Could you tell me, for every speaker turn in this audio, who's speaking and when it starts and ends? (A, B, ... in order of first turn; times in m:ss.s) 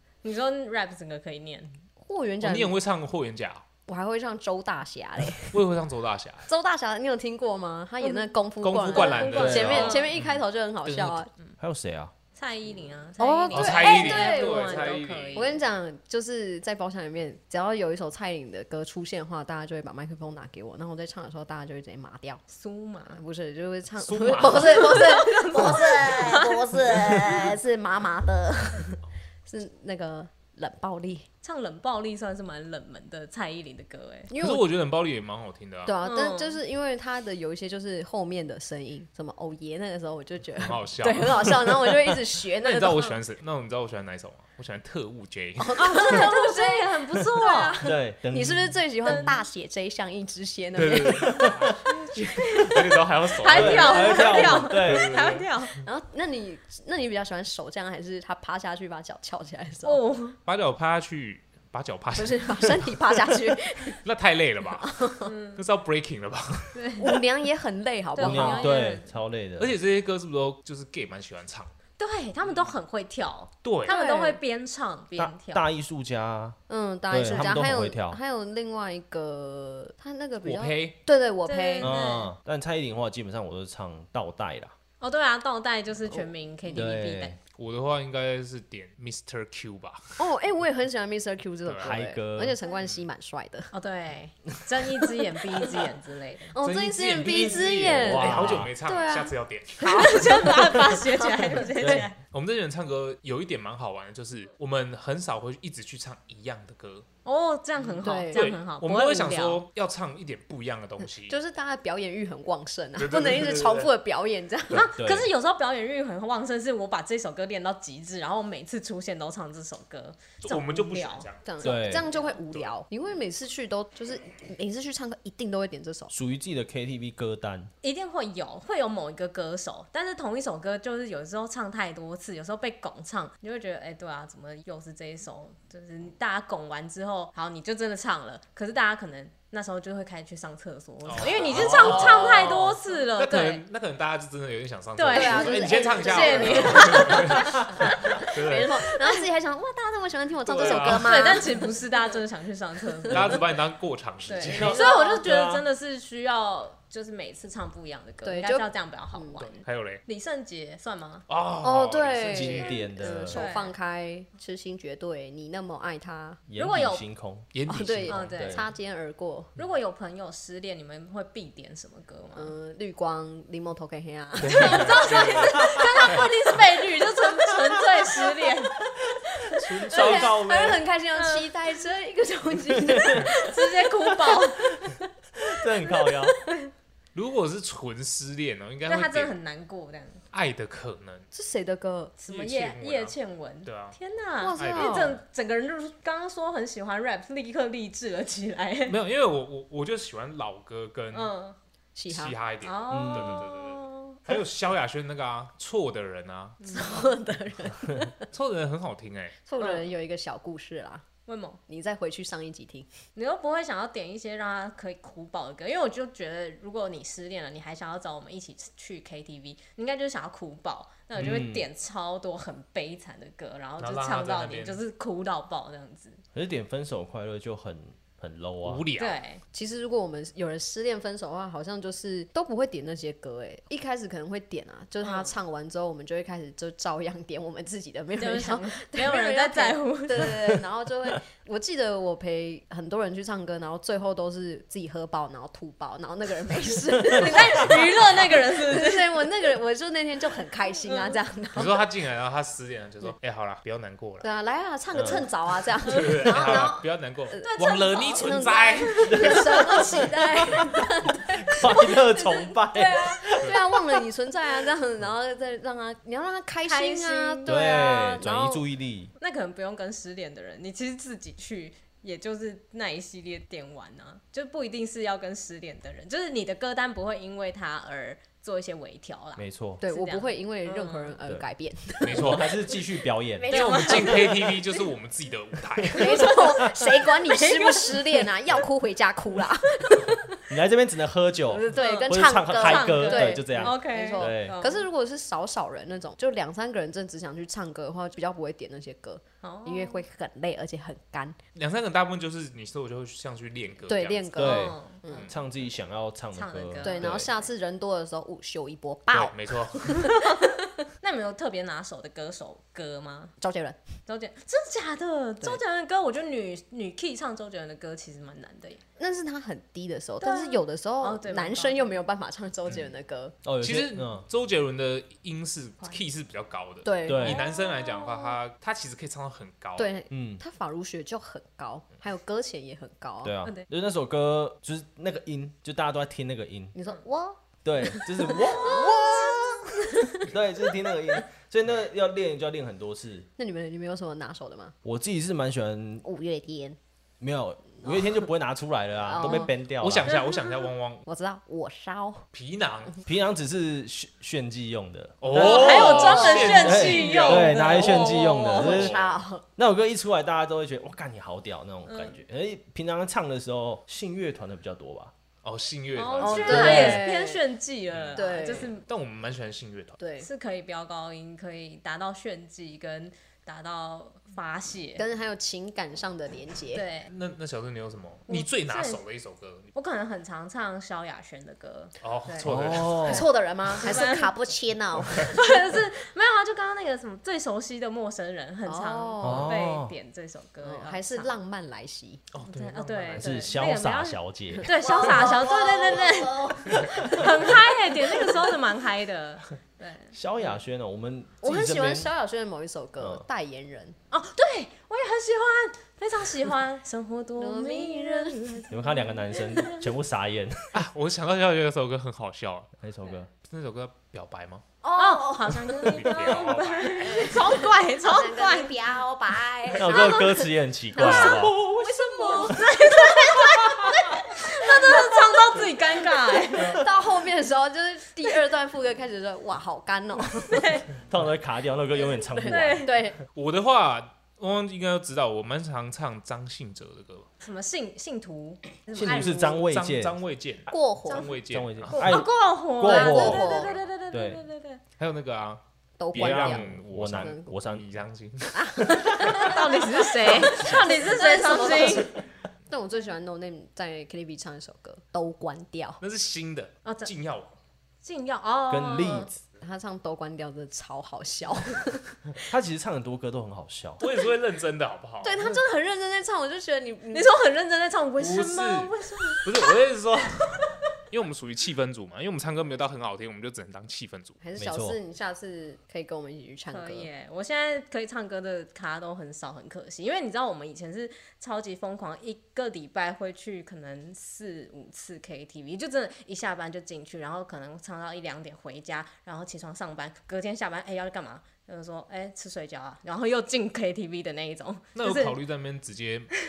0:00.2-0:01.7 A
0:02.0-0:02.8 B
0:02.4-0:03.6 C
0:03.9-0:05.6 B
0:05.4-0:06.5 C
0:06.5-0:11.3 B
0:08.0-0:08.3 A
0:08.6-0:11.2 C
0:08.8-0:10.1 A
0:09.4-0:09.9 D
0:11.6-0:12.1 D
0:12.3-0:15.6 A
0:13.2-0:22.4 B
0:13.5-0:15.5 C
0:22.5-0:23.2 A
0:23.1-0:31.3 B
0:24.0-0:25.1 C
0:24.6-0:26.6 A
0:31.4-0:34.3 A
0:34.3-0:34.7 B
0:34.3-0:35.9 C
0:35.8-0:43.1 B
0:36.0-0:36.6 A
0:40.6-0:41.6 C
0:42.6-0:46.0 C
0:45.6-0:51.6 B
0:45.8-0:47.9 A
0:47.8-0:48.8 D
0:49.0-0:49.4 A
0:50.7-0:55.4 C
0:52.3-0:52.8 A
0:53.4-0:55.8 A
0:53.5-0:55.1 D
0:55.8-1:00.0 B
0:59.8-1:00.4 A
1:00.4-1:02.8 C
1:02.1-1:04.0 B
1:04.0-1:06.8 C
1:04.8-1:05.3 B
1:05.2-1:05.6 A
1:06.7-1:07.2 A
1:07.0-1:08.7 B
1:08.1-1:09.1 A
1:08.2-1:09.8 D
1:09.6-1:11.7 C
1:12.0-1:15.6 A
1:13.6-1:14.0 C
1:13.9-1:14.4 B
1:15.2-1:16.6 D
1:16.7-1:22.1 B
1:17.1-1:18.2 D
1:20.4-1:21.0 C
1:21.4-1:22.3 A
1:21.8-1:24.7 D
1:25.0-1:27.4 A
1:26.1-1:26.9 B
1:26.7-1:27.4 D
1:27.5-1:30.2 C
1:30.2-1:33.7 B
1:31.6-1:32.0 C
1:31.8-1:32.6 D
1:33.7-1:36.5 A
1:36.5-1:41.6 B
1:36.6-1:40.4 C
1:37.9-1:38.7 D
1:39.8-1:42.2 A
1:41.8-1:42.0 D
1:42.2-1:47.0 C
1:47.2-1:49.6 A
1:47.8-1:51.4 C
1:48.0-1:48.5 B
1:51.3-1:54.9 B
1:53.0-1:53.9 C
1:54.7-2:02.2 A
1:54.7-1:55.3 D
2:00.4-2:01.5 C
2:01.4-2:06.1 B
2:01.6-2:02.1 D
2:02.2-2:02.7 C
2:06.1-2:07.7 D
2:07.8-2:23.6 A
2:21.0-2:28.8 C
2:25.0-2:28.0 A
2:25.1-2:31.8 B
2:30.4-2:31.4 C
2:30.5-2:33.4 A
2:33.1-2:34.8 C
2:34.3-2:41.2 A
2:34.5-2:35.6 D
2:34.7-2:35.2 B
2:38.2-2:39.4 B
2:39.4-2:40.0 C
2:41.3-2:42.8 C
2:41.6-2:46.4 B
2:42.2-2:43.4 D
2:43.2-2:43.8 A
2:46.5-2:48.7 D
2:46.6-2:47.0 A
2:47.5-2:48.4 C
2:47.7-2:49.5 B
2:48.1-2:48.6 A
2:49.6-2:52.5 A
2:52.3-2:56.3 B
2:54.4-2:55.6 C
2:54.4-2:58.7 A
2:57.4-2:58.4 B
2:59.4-3:04.9 B
2:59.6-3:00.8 C
2:59.7-3:00.7 D
3:01.1-3:01.5 A
3:03.0-3:04.7 A
3:05.4-3:06.4 D
3:05.8-3:06.2 B
3:07.1-3:09.4 C
3:08.9-3:10.2 A
3:10.3-3:11.2 C
3:11.3-3:12.1 B
3:12.2-3:19.0 A
3:12.3-3:14.0 C
3:14.4-3:15.2 B
3:14.6-3:15.2 C
3:18.9-3:21.3 C
3:21.1-3:21.6 A
3:21.9-3:22.4 B
3:22.1-3:26.6 C
3:22.6-3:24.2 A
3:22.9-3:23.4 D
3:26.6-3:27.0 A
3:26.7-3:28.2 B
3:28.3-3:29.4 C
3:29.4-3:31.0 B
3:29.6-3:29.8 A
3:31.3-3:31.6 A
3:31.7-3:32.9 B
3:33.2-3:46.2 A
3:41.2-3:41.7 D
3:43.8-3:44.8 C
3:46.3-3:48.8 D
3:48.6-3:49.2 C
3:49.0-3:49.4 A
3:49.5-4:11.8 B
3:55.0-3:55.3 A
3:58.2-4:00.6 A
4:07.1-4:09.2 A
4:10.9-4:11.2 A
4:11.5-4:14.2 C
4:14.2-4:28.6 B
4:14.9-4:15.2 D
4:15.8-4:19.8 C
4:16.3-4:16.7 D
4:17.4-4:18.4 A
4:19.0-4:20.6 A
4:19.1-4:19.4 D
4:21.4-4:24.0 D
4:26.6-4:27.6 A
4:27.4-4:29.1 D
4:29.2-4:41.2 A
4:39.4-4:39.8 D
4:39.8-4:42.8 B
4:42.0-4:42.5 C
4:42.1-4:44.0 D
4:43.4-4:44.6 B
4:43.5-4:44.2 A
4:43.5-4:46.4 C
4:45.9-4:50.4 B
4:46.1-4:48.3 A
4:50.5-4:54.6 D
4:51.5-5:01.4 B
4:51.7-4:54.8 A
4:59.4-5:00.0 A
5:01.5-5:04.6 C
5:03.9-5:05.3 B
5:04.3-5:07.3 D
5:04.4-5:05.0 A
5:06.3-5:07.4 A
5:06.8-5:10.6 B
5:09.1-5:10.0 C
5:11.0-5:13.4 A
5:13.4-5:13.8 B
5:14.1-5:18.8 A
5:19.0-5:23.4 B
5:20.2-5:21.9 A
5:23.4-5:24.2 D
5:23.6-5:29.9 C
5:26.8-5:27.5 B
5:27.0-5:27.4 D
5:27.8-5:28.2 A
5:29.8-5:33.3 B
5:30.1-5:30.4 D
5:33.2-5:36.7 D
5:36.7-5:40.3 B
5:37.6-5:39.4 D
5:38.4-5:39.4 A
5:40.2-5:43.3 D
5:43.4-5:44.7 B
5:44.8-5:46.0 D
5:46.0-5:46.8 B
5:47.2-5:50.1 D
5:47.8-5:48.3 B
5:49.0-5:49.5 B
5:49.8-5:51.0 C
5:51.0-5:52.2 B
5:52.3-5:53.0 C
5:53.0-5:59.0 D
5:55.2-5:57.6 C
5:55.3-5:58.9 A
5:55.4-5:56.8 B
5:57.7-5:59.4 B
5:58.6-5:59.2 C
5:59.6-6:05.1 D
6:01.8-6:02.1 A
6:05.4-6:07.0 C
6:05.9-6:08.8 A
6:06.2-6:07.4 B
6:06.4-6:07.0 D
6:07.9-6:10.0 C
6:08.1-6:08.7 B
6:10.0-6:10.3 B
6:10.2-6:15.0 A
6:15.0-6:16.8 B
6:16.7-6:17.1 A
6:17.1-6:19.7 C
6:18.3-6:19.0 A
6:19.7-6:24.4 A
6:22.0-6:23.1 C
6:22.4-6:23.3 D
6:23.0-6:25.4 B
6:25.0-6:31.4 A
6:28.6-6:29.5 B
6:29.2-6:29.9 D
6:30.6-6:32.2 B
6:32.3-6:33.4 C
6:32.5-6:40.1 A
6:33.2-6:34.7 D
6:34.6-6:38.4 B
6:40.1-6:42.1 D
6:41.4-6:44.0 B
6:43.0-6:43.2 D
6:44.1-6:49.8 A
6:47.4-6:48.6 B
6:48.7-6:50.7 D
6:50.7-6:52.7 C
6:52.8-6:53.3 D
6:53.4-6:54.6 C
6:54.8-6:56.1 B
6:54.9-6:58.8 A
6:55.8-6:57.3 C
6:57.0-7:05.8 B
6:59.8-7:01.6 D
6:59.8-7:00.3 A
7:01.0-7:06.9 A
7:01.4-7:02.6 C
7:06.5-7:10.8 B
7:10.3-7:10.9 A
7:11.1-7:12.9 D
7:12.0-7:13.2 B
7:12.4-7:13.0 A
7:13.3-7:17.3 C
7:17.4-7:19.6 A
7:18.9-7:20.2 D
7:19.4-7:22.1 C
7:20.7-7:21.3 B
7:21.5-7:23.6 D
7:21.9-7:24.8 A
7:22.8-7:23.8 B
7:24.1-7:24.4 D
7:25.0-7:25.6 C
7:26.0-7:27.5 B
7:26.1-7:29.6 C
7:26.1-7:27.8 D
7:28.5-7:36.0 B
7:29.0-7:32.1 A
7:36.0-7:37.6 C
7:36.8-7:37.1 A
7:38.0-7:39.3 A
7:38.7-7:39.4 D
7:39.6-7:42.2 B
7:42.5-7:44.0 D
7:44.0-7:45.6 C
7:45.2-7:47.3 B
7:47.1-7:49.4 A
7:48.2-7:54.4 C
7:54.4-7:57.1 B
7:54.6-7:55.0 D
7:56.7-8:15.4 A
8:14.9-8:16.3 C